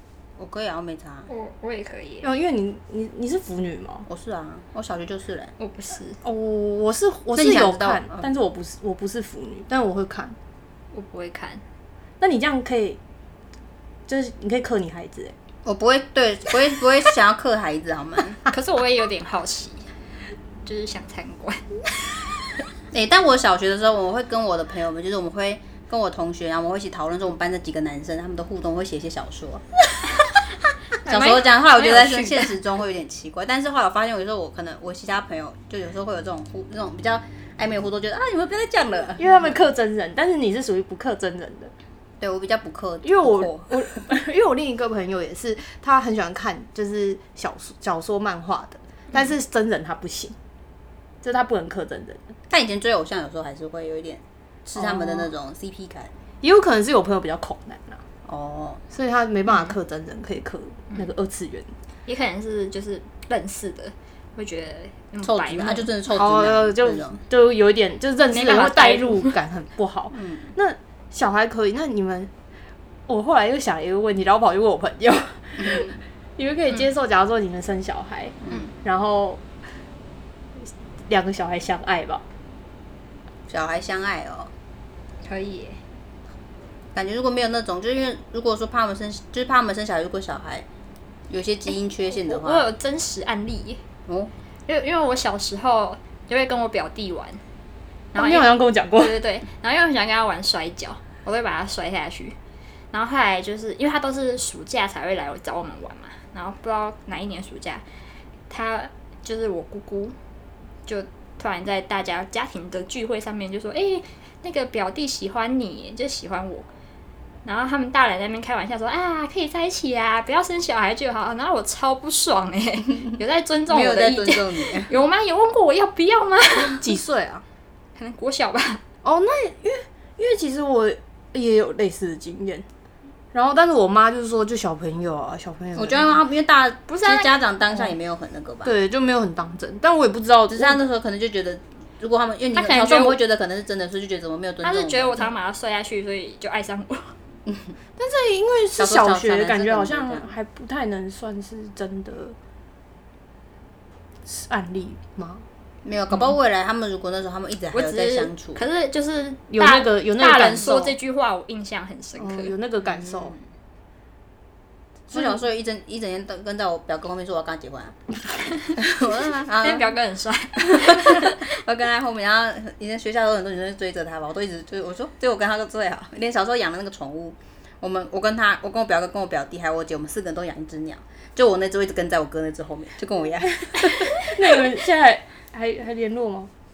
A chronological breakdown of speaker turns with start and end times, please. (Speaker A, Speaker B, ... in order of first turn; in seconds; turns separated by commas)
Speaker A: 0.4-1.3, Speaker B: 1.3-2.3, Speaker C: 2.2-4.0, Speaker A: 4.1-5.5, Speaker B: 5.6-6.2, Speaker C: 6.2-10.3, Speaker A: 7.3-8.2, Speaker B: 10.9-11.6, Speaker C: 12.2-13.0, Speaker C: 14.1-15.3, Speaker A: 15.6-18.4, Speaker B: 18.5-19.8, Speaker B: 20.6-21.6, Speaker A: 22.9-29.6, Speaker A: 31.0-39.5, Speaker B: 31.0-32.5, Speaker C: 39.2-41.7, Speaker A: 42.2-44.0, Speaker C: 43.0-50.4, Speaker C: 51.2-52.2, Speaker A: 52.5-56.1, Speaker C: 54.7-55.3, Speaker C: 56.4-58.0, Speaker A: 58.2-58.8, Speaker C: 58.9-61.7, Speaker B: 62.0-65.9, Speaker A: 65.2-67.2, Speaker C: 66.1-72.3, Speaker B: 68.3-69.3, Speaker A: 70.1-70.5, Speaker C: 73.1-79.4, Speaker A: 75.6-76.0, Speaker A: 78.4-78.7, Speaker C: 81.1-82.2, Speaker A: 83.5-84.5, Speaker B: 85.2-85.8, Speaker A: 86.9-90.7, Speaker A: 91.3-92.7, Speaker B: 92.1-93.8, Speaker A: 94.1-94.3, Speaker B: 94.7-97.4, Speaker B: 98.1-102.4, Speaker C: 98.2-99.2, Speaker B: 102.9-107.8, Speaker B: 108.5-110.1, Speaker B: 110.8-116.7, Speaker B: 117.4-126.8, Speaker A: 123.7-124.9, Speaker C: 126.6-127.4, Speaker B: 128.0-128.8, Speaker C: 129.0-132.7, Speaker C: 133.3-136.2, Speaker A: 135.7-138.7, Speaker B: 136.9-137.3, Speaker C: 138.6-140.8, Speaker A: 140.5-145.3, Speaker B: 142.5-143.2, Speaker B: 144.6-147.1, Speaker A: 147.5-147.7, Speaker C: 148.0-152.3, Speaker A: 148.8-150.3, Speaker C: 154.2-155.4, Speaker A: 155.8-158.6, Speaker B: 157.7-162.5, Speaker C: 159.5-160.9, Speaker C: 162.2-163.3, Speaker A: 162.8-163.4, Speaker A: 165.1-168.0, Speaker A: 168.7-169.9, Speaker B: 169.6-171.5, Speaker A: 170.6-184.1, Speaker C: 184.2-186.5